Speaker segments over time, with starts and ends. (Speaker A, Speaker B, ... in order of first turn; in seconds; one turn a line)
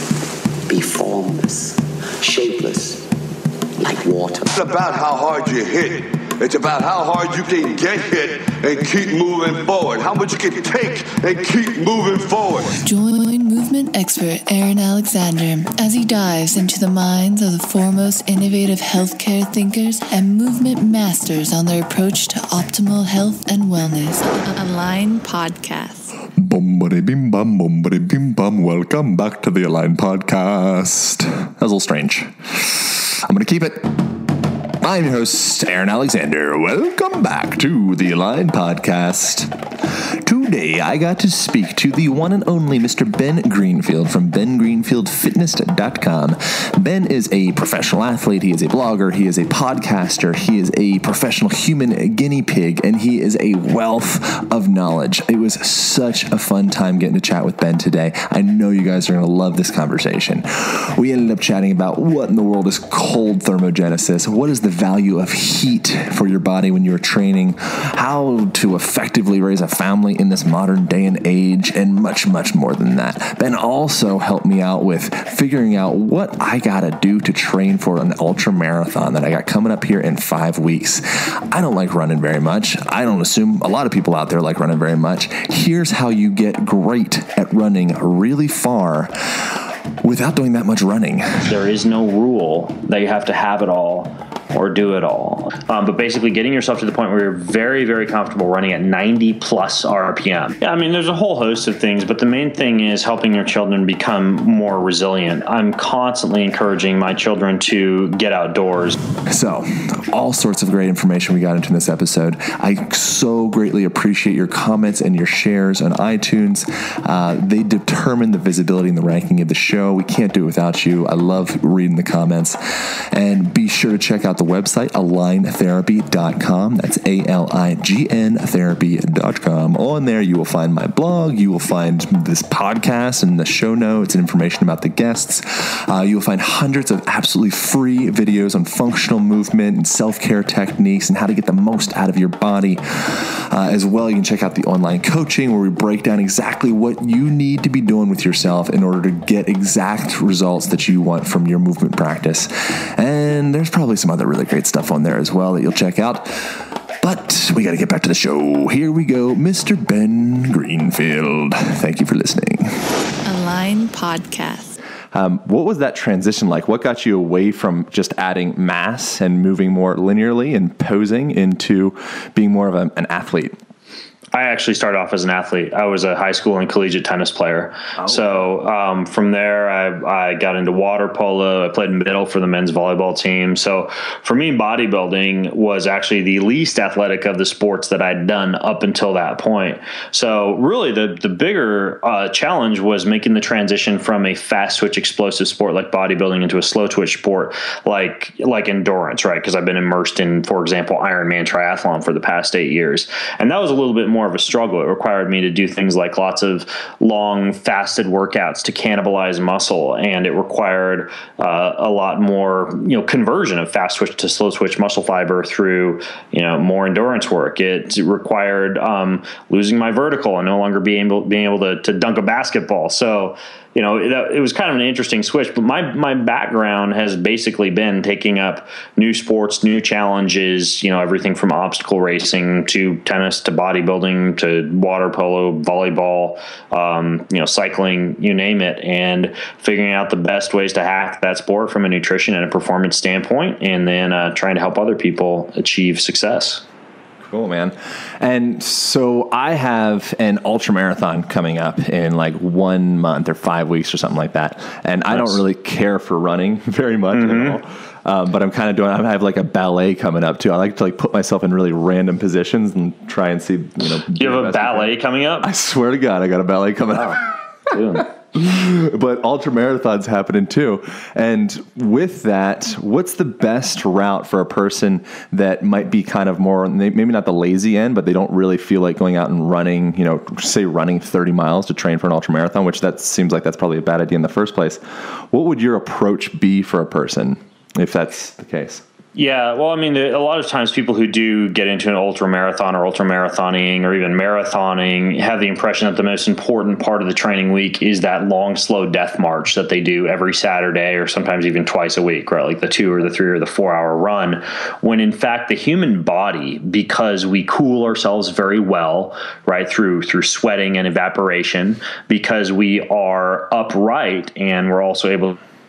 Speaker A: 0.7-3.1
Speaker A: 3.8-4.5
Speaker B: 4.5-12.7
Speaker C: 12.8-26.1
Speaker D: 26.4-34.2
Speaker D: 34.8-39.5
Speaker D: 40.2-91.5
Speaker E: 91.4-109.0
Speaker D: 109.2-162.8
Speaker C: 163.2-164.8
Speaker D: 165.1-173.5
Speaker E: 174.3-246.6
Speaker D: 178.0-178.4
Speaker D: 247.2-284.8
Speaker E: 255.1-255.4
Speaker E: 257.1-257.6
Speaker E: 264.1-265.5
Speaker E: 267.7-268.1
Speaker D: 285.3-288.8
Speaker E: 289.1-315.4